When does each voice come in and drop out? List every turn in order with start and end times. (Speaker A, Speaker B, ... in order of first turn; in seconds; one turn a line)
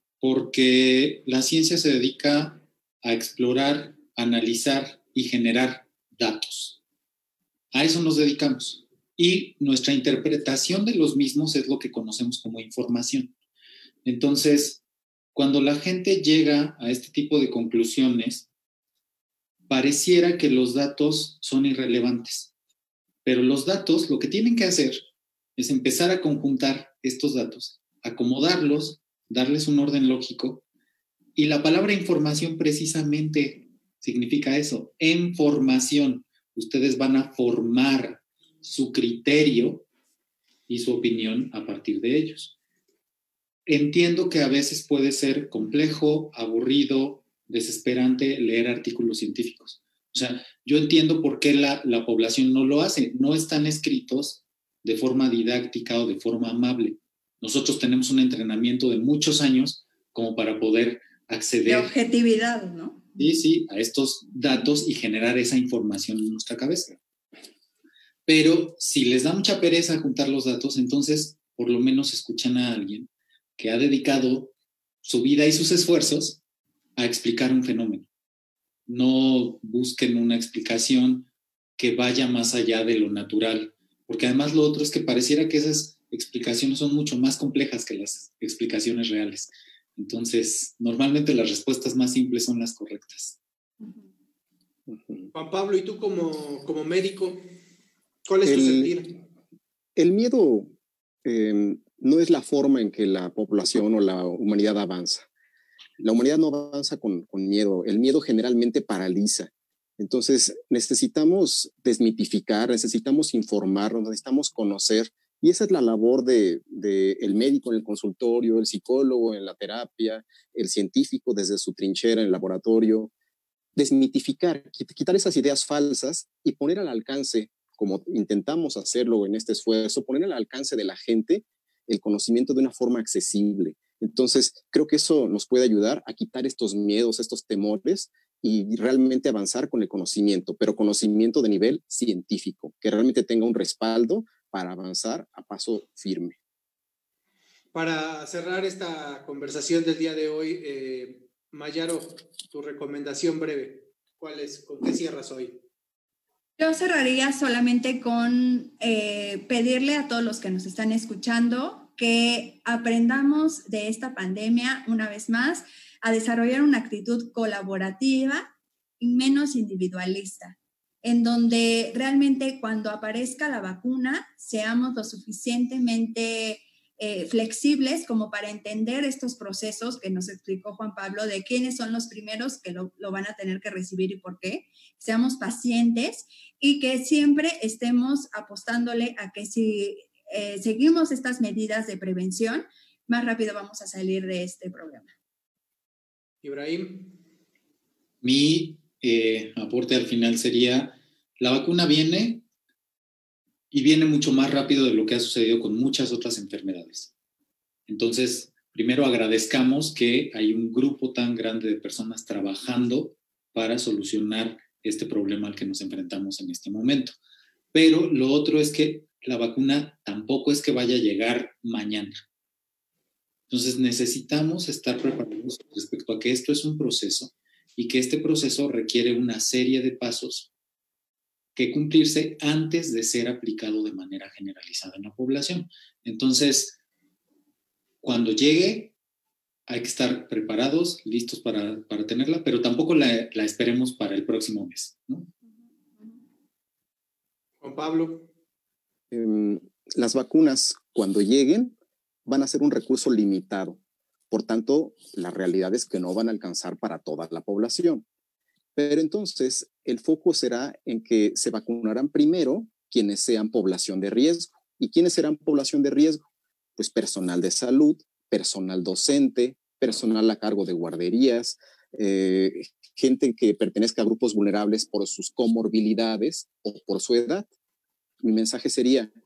Speaker A: 0.2-6.8
Speaker A: 7.7-13.3
Speaker A: 14.0-14.8
Speaker A: 15.3-18.5
Speaker A: 19.7-22.5
Speaker A: 23.2-25.0
Speaker A: 25.6-30.6
Speaker A: 31.4-39.9
Speaker A: 40.7-42.5
Speaker A: 43.7-61.9
Speaker B: 61.6-63.1
Speaker A: 63.1-66.9
Speaker A: 68.2-76.4
Speaker A: 77.0-78.1
Speaker A: 78.9-93.4
Speaker C: 94.9-95.3
Speaker D: 95.3-97.5
Speaker D: 98.2-99.1
Speaker C: 98.4-99.0
Speaker C: 100.0-100.7
Speaker C: 101.2-105.2
Speaker C: 106.0-123.1
Speaker C: 123.8-146.3
Speaker D: 147.7-155.6
Speaker B: 156.6-195.1
Speaker D: 196.4-197.2
Speaker A: 198.2-202.4
Speaker A: 203.7-207.1
Speaker A: 207.9-217.1
Speaker A: 217.7-222.1
Speaker A: 223.5-230.5
Speaker A: 231.6-236.8
Speaker A: 238.0-238.9
Speaker A: 239.7-245.3
Speaker D: 247.6-248.3
Speaker C: 249.1-251.7
Speaker C: 252.2-253.8
Speaker C: 254.3-258.0
Speaker C: 258.8-266.2
Speaker C: 266.8-277.5
Speaker C: 278.2-279.1